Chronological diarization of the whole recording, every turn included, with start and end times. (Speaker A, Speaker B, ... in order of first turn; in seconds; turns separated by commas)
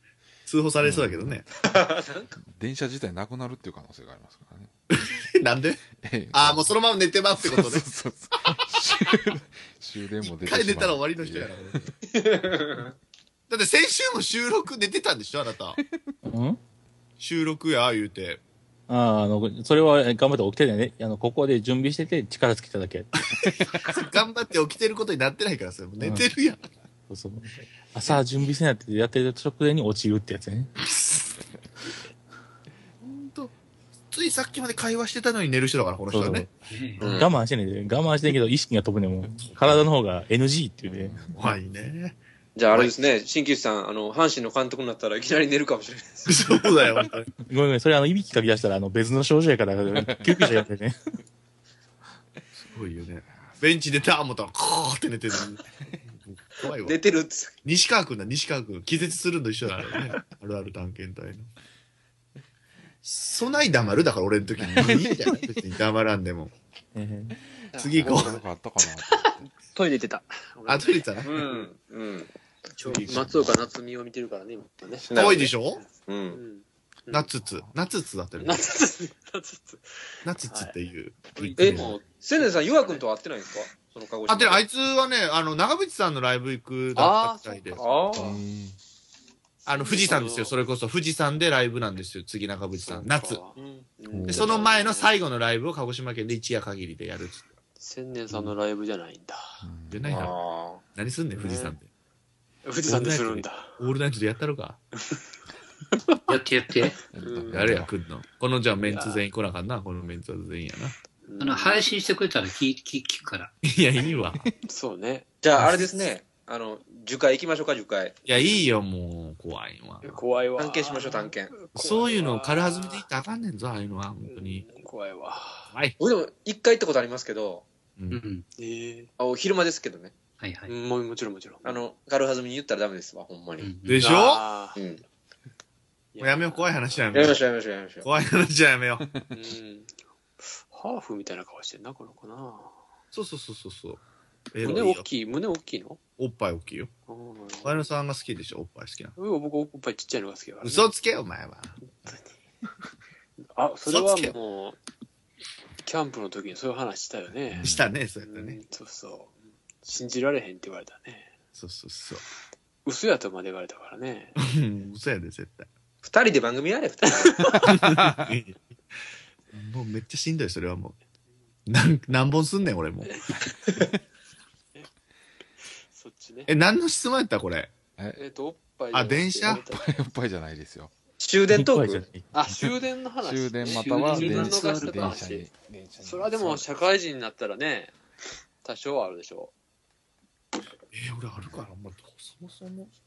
Speaker A: 0.5-1.5, Speaker B: 0.8-1.4, Speaker C: 1.7-2.3, Speaker B: 2.4-4.7, Speaker A: 4.9-7.8, Speaker B: 6.0-6.8, Speaker B: 7.4-11.6, Speaker A: 10.2-11.9, Speaker C: 12.1-12.9, Speaker A: 13.5-15.8, Speaker B: 15.8-16.1, Speaker D: 16.2-16.6, Speaker A: 17.2-18.4, Speaker D: 18.9-23.1, Speaker A: 23.3-26.7, Speaker D: 26.0-26.3, Speaker D: 27.1-30.7, Speaker A: 30.8-31.4, Speaker A: 33.0-33.5, Speaker A: 34.1-36.5, Speaker D: 36.1-41.2, Speaker E: 36.7-37.0, Speaker C: 37.0-37.3, Speaker A: 39.4-39.8, Speaker B: 40.9-41.5, Speaker A: 41.3-42.2, Speaker C: 42.5-46.4, Speaker A: 46.3-47.3, Speaker D: 47.5-51.0, Speaker B: 50.0-50.4, Speaker A: 52.6-57.0, Speaker C: 56.8-57.5, Speaker A: 57.6-61.5, Speaker A: 63.0-66.5, Speaker B: 64.4-65.4, Speaker D: 66.9-67.3, Speaker B: 67.7-69.2, Speaker A: 67.8-68.4, Speaker F: 68.0-71.7, Speaker A: 70.7-71.4, Speaker C: 71.2-72.3, Speaker F: 72.7-77.3, Speaker A: 72.8-73.5, Speaker C: 75.1-76.4, Speaker A: 75.1-75.8, Speaker A: 77.1-78.6, Speaker F: 78.4-80.7, Speaker A: 80.2-81.7, Speaker F: 81.3-83.0, Speaker D: 81.4-81.8, Speaker C: 81.6-84.6, Speaker A: 84.3-87.8, Speaker F: 86.9-88.0, Speaker C: 87.7-88.3, Speaker B: 88.1-88.8, Speaker F: 89.6-90.5, Speaker A: 89.7-93.4, Speaker F: 92.8-95.1, Speaker C: 93.6-93.8, Speaker B: 94.1-94.5, Speaker A: 94.3-97.5, Speaker F: 97.8-99.6, Speaker B: 99.6-100.3, Speaker A: 99.9-100.4, Speaker C: 100.1-100.8, Speaker A: 100.9-101.9, Speaker F: 101.3-101.7, Speaker F: 102.6-103.8, Speaker A: 102.9-104.8, Speaker E: 106.3-107.0, Speaker B: 107.1-107.9, Speaker F: 107.2-107.5, Speaker A: 107.5-111.0, Speaker F: 108.9-109.2, Speaker F: 111.2-111.9, Speaker E: 111.4-113.5, Speaker A: 113.6-114.4, Speaker F: 114.7-115.2, Speaker C: 115.4-118.2, Speaker A: 118.2-120.2, Speaker F: 120.0-123.0, Speaker C: 120.6-121.6, Speaker A: 121.7-124.7, Speaker F: 124.2-125.7, Speaker C: 126.0-127.7, Speaker A: 128.0-128.2, Speaker E: 128.1-128.4, Speaker F: 128.6-129.1, Speaker C: 129.2-130.1, Speaker E: 130.4-130.7, Speaker F: 130.7-131.8, Speaker C: 131.6-133.7, Speaker E: 133.6-134.0, Speaker A: 133.8-134.4, Speaker F: 134.0-134.8, Speaker C: 134.8-135.0, Speaker F: 136.1-137.3, Speaker A: 136.2-137.4, Speaker C: 137.1-138.1, Speaker A: 138.0-139.1, Speaker F: 139.3-142.7, Speaker A: 143.1-144.0, Speaker A: 144.5-145.1, Speaker F: 144.6-146.0, Speaker A: 146.2-146.9, Speaker F: 147.1-147.9, Speaker A: 147.6-149.1, Speaker F: 149.2-150.9, Speaker A: 150.6-151.8, Speaker F: 151.9-152.2, Speaker F: 153.5-154.8, Speaker F: 155.8-157.7, Speaker B: 157.5-157.9, Speaker A: 157.6-158.6, Speaker F: 158.2-161.3, Speaker A: 161.5-162.2, Speaker F: 162.8-164.3, Speaker A: 164.4-165.7, Speaker C: 166.0-167.6, Speaker F: 167.1-167.7, Speaker A: 167.6-168.6, Speaker B: 168.0-168.3, Speaker A: 169.5-170.9, Speaker A: 171.7-173.1, Speaker F: 173.0-173.9, Speaker F: 175.7-176.5, Speaker A: 176.5-177.7, Speaker F: 178.2-179.9, Speaker A: 178.9-179.6, Speaker B: 179.4-180.9, Speaker C: 181.2-182.1, Speaker D: 181.5-182.3, Speaker F: 182.3-185.5, Speaker B: 183.2-186.7, Speaker E: 183.6-185.2, Speaker F: 186.0-187.9, Speaker F: 188.6-189.5, Speaker A: 190.9-192.9